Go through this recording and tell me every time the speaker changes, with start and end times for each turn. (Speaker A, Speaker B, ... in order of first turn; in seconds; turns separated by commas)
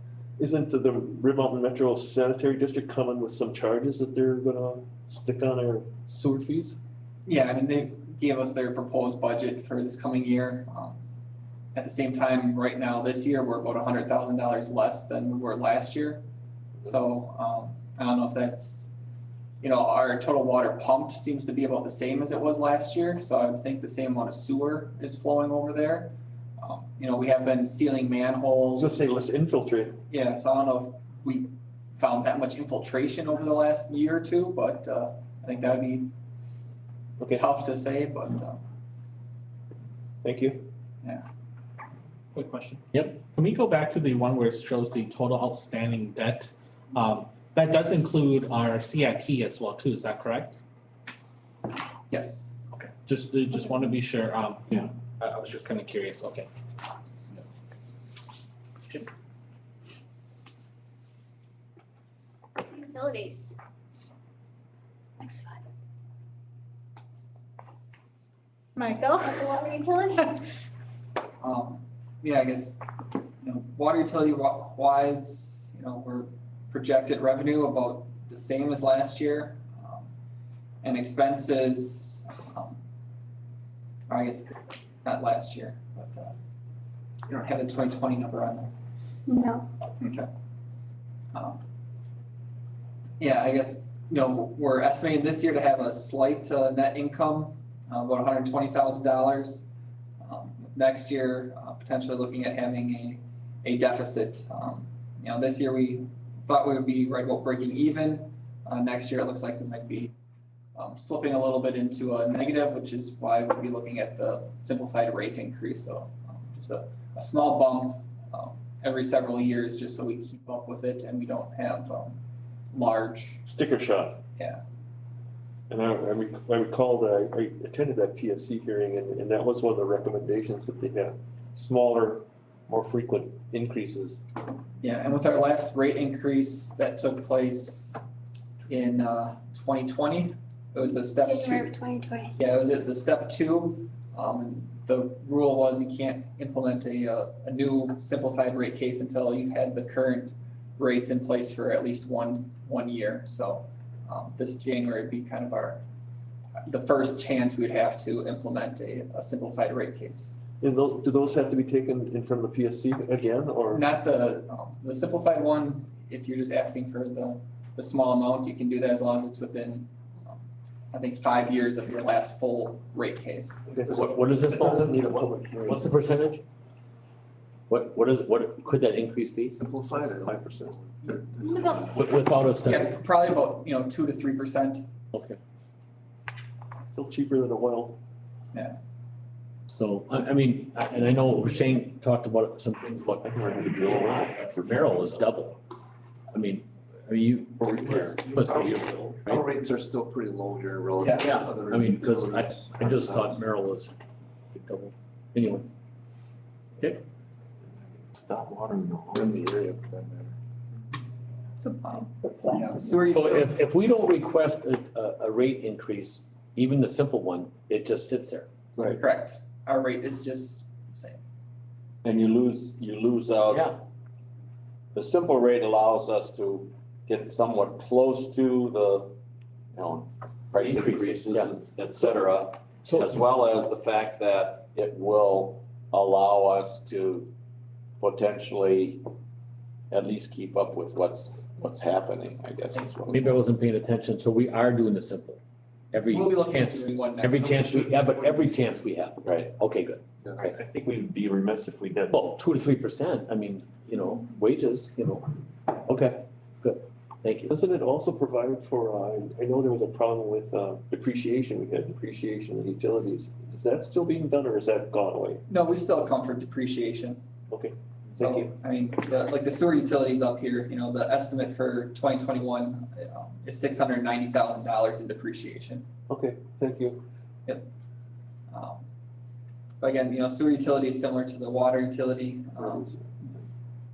Speaker A: 0.4-6.8, Speaker B: 7.3-11.0, Speaker B: 11.8-16.2, Speaker B: 16.9-18.9, Speaker B: 19.6-29.2, Speaker A: 28.8-30.0, Speaker B: 30.1-36.1, Speaker B: 37.3-38.6, Speaker A: 40.2-40.6, Speaker C: 42.4-50.6, Speaker B: 52.1-52.6, Speaker C: 52.8-56.5, Speaker D: 62.6-63.6, Speaker D: 65.2-65.6, Speaker D: 68.8-70.4, Speaker B: 71.4-72.8, Speaker B: 73.4-80.1, Speaker B: 80.8-82.8, Speaker B: 84.1-86.4, Speaker B: 87.3-88.7, Speaker D: 89.3-89.7, Speaker B: 90.0-90.3, Speaker B: 91.3-91.6, Speaker B: 93.2-99.7, Speaker B: 100.2-110.1, Speaker B: 110.8-122.2, Speaker B: 122.7-123.4, Speaker A: 123.5-124.2, Speaker A: 125.7-134.2, Speaker B: 134.8-138.0, Speaker B: 138.7-141.7, Speaker D: 141.2-142.3, Speaker B: 142.4-155.8, Speaker B: 156.7-160.3, Speaker A: 160.6-163.8, Speaker B: 163.7-173.6, Speaker A: 173.7-176.0, Speaker E: 173.9-176.4, Speaker E: 177.7-179.6, Speaker F: 179.5-182.0, Speaker A: 180.2-180.8, Speaker D: 181.4-181.8, Speaker E: 181.9-182.9, Speaker B: 182.6-184.8, Speaker E: 185.1-185.4, Speaker A: 186.9-188.0, Speaker E: 189.7-195.6, Speaker A: 193.2-194.3, Speaker G: 193.8-194.1, Speaker E: 196.3-199.5, Speaker F: 198.0-203.4, Speaker B: 201.0-201.3, Speaker E: 201.2-203.9, Speaker E: 204.5-205.7, Speaker F: 208.3-210.3, Speaker B: 211.6-213.5, Speaker E: 213.1-218.5, Speaker B: 219.0-221.2, Speaker G: 222.0-223.7, Speaker E: 223.5-223.8, Speaker G: 224.9-229.1, Speaker G: 229.8-237.3, Speaker E: 230.7-231.5, Speaker E: 232.8-233.2, Speaker G: 238.0-239.0, Speaker G: 239.9-243.3, Speaker E: 243.1-245.4, Speaker E: 245.9-250.6, Speaker B: 246.1-248.4, Speaker A: 250.4-252.2, Speaker E: 252.1-257.5, Speaker A: 257.5-265.4, Speaker B: 265.5-267.2, Speaker A: 267.5-268.5, Speaker B: 268.2-275.9, Speaker A: 276.1-277.0, Speaker B: 278.5-278.8, Speaker B: 279.8-282.9, Speaker A: 282.6-283.4